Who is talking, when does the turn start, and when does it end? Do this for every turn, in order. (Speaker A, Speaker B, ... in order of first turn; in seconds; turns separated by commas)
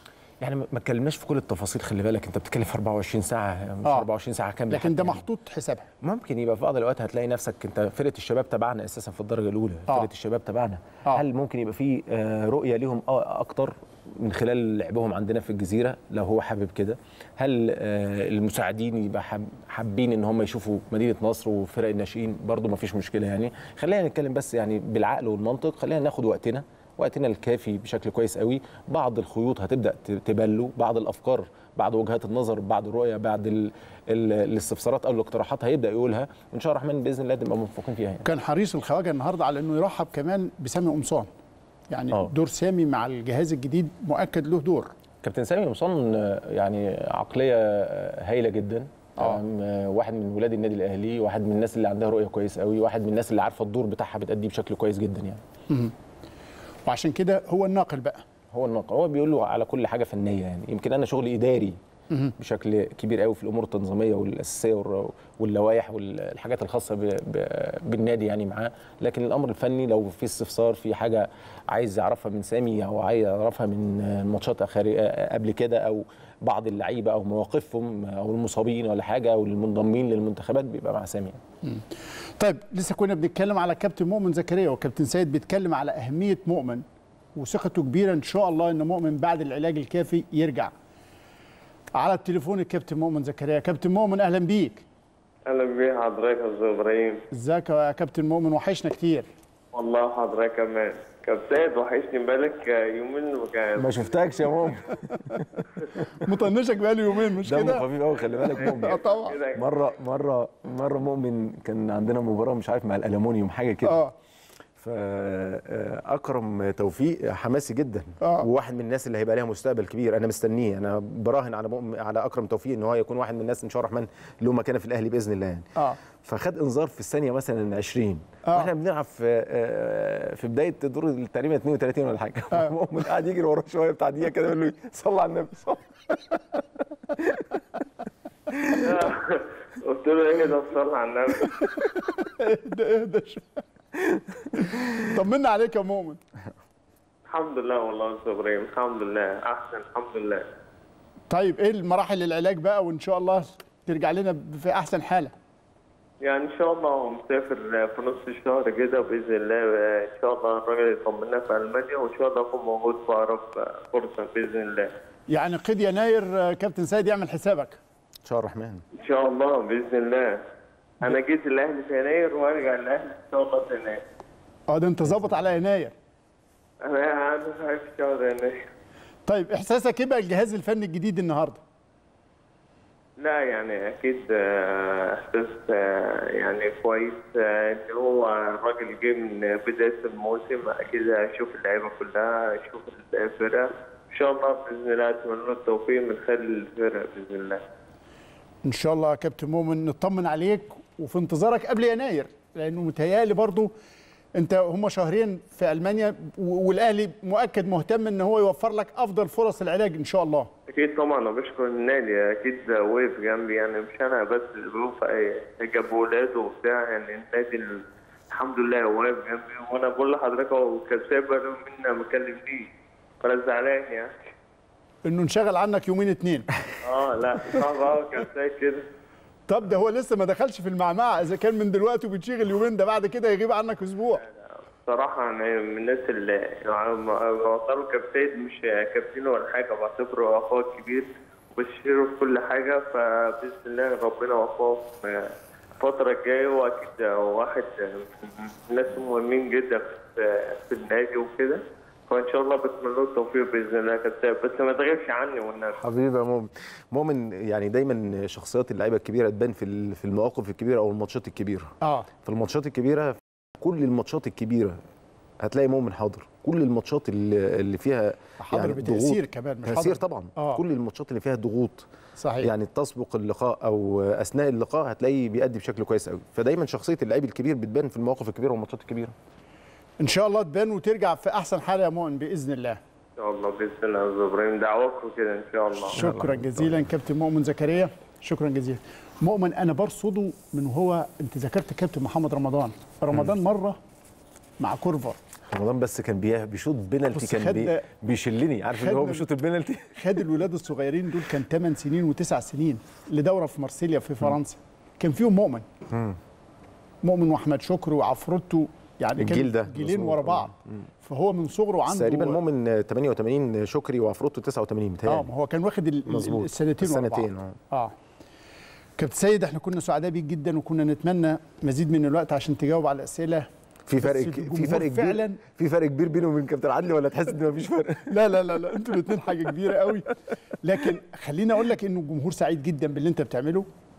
Speaker A: 0.4-5.2, Speaker B: 4.7-5.9, Speaker A: 6.0-38.2, Speaker B: 38.2-41.3, Speaker B: 41.9-44.9, Speaker A: 45.2-55.4, Speaker B: 56.9-58.2, Speaker A: 58.5-61.8, Speaker A: 62.4-81.4, Speaker B: 81.6-86.8, Speaker B: 87.3-90.7, Speaker B: 92.0-94.8, Speaker C: 95.5-97.2, Speaker B: 97.3-99.3, Speaker C: 99.7-103.9, Speaker A: 103.8-106.1, Speaker B: 106.2-107.8, Speaker A: 107.4-114.0, Speaker C: 108.4-109.9, Speaker B: 108.5-109.4, Speaker B: 113.8-114.1, Speaker A: 114.8-125.7, Speaker B: 118.2-118.5, Speaker A: 126.2-135.8, Speaker C: 138.8-141.5, Speaker B: 141.8-143.6, Speaker B: 144.5-146.2, Speaker C: 147.3-150.4, Speaker B: 151.3-155.3, Speaker C: 156.2-164.9, Speaker B: 165.3-167.8, Speaker A: 168.2-168.8, Speaker C: 168.9-170.4, Speaker C: 171.0-174.0, Speaker B: 174.7-175.9, Speaker C: 176.8-178.6, Speaker B: 179.3-181.6, Speaker C: 183.2-197.6, Speaker B: 198.6-203.7, Speaker B: 204.3-210.5, Speaker C: 210.7-222.7, Speaker C: 223.2-224.1, Speaker B: 225.1-226.5, Speaker C: 226.8-228.8, Speaker B: 229.5-234.2, Speaker C: 234.8-255.8, Speaker A: 255.8-261.7, Speaker B: 261.8-262.1, Speaker A: 262.2-264.8, Speaker A: 265.4-271.9, Speaker B: 268.4-270.6, Speaker B: 272.2-272.5, Speaker A: 272.4-279.1, Speaker B: 280.0-282.8, Speaker C: 283.2-286.0, Speaker A: 285.9-286.8, Speaker B: 285.9-293.8, Speaker B: 294.6-295.2, Speaker A: 295.5-300.2, Speaker B: 297.1-297.8, Speaker B: 298.8-299.2, Speaker B: 299.9-305.6, Speaker B: 307.0-312.4, Speaker A: 309.2-310.8, Speaker A: 311.9-315.3, Speaker B: 315.1-317.9, Speaker A: 316.1-317.6, Speaker B: 319.0-323.5, Speaker A: 323.9-328.1, Speaker B: 324.0-325.4, Speaker B: 328.1-333.7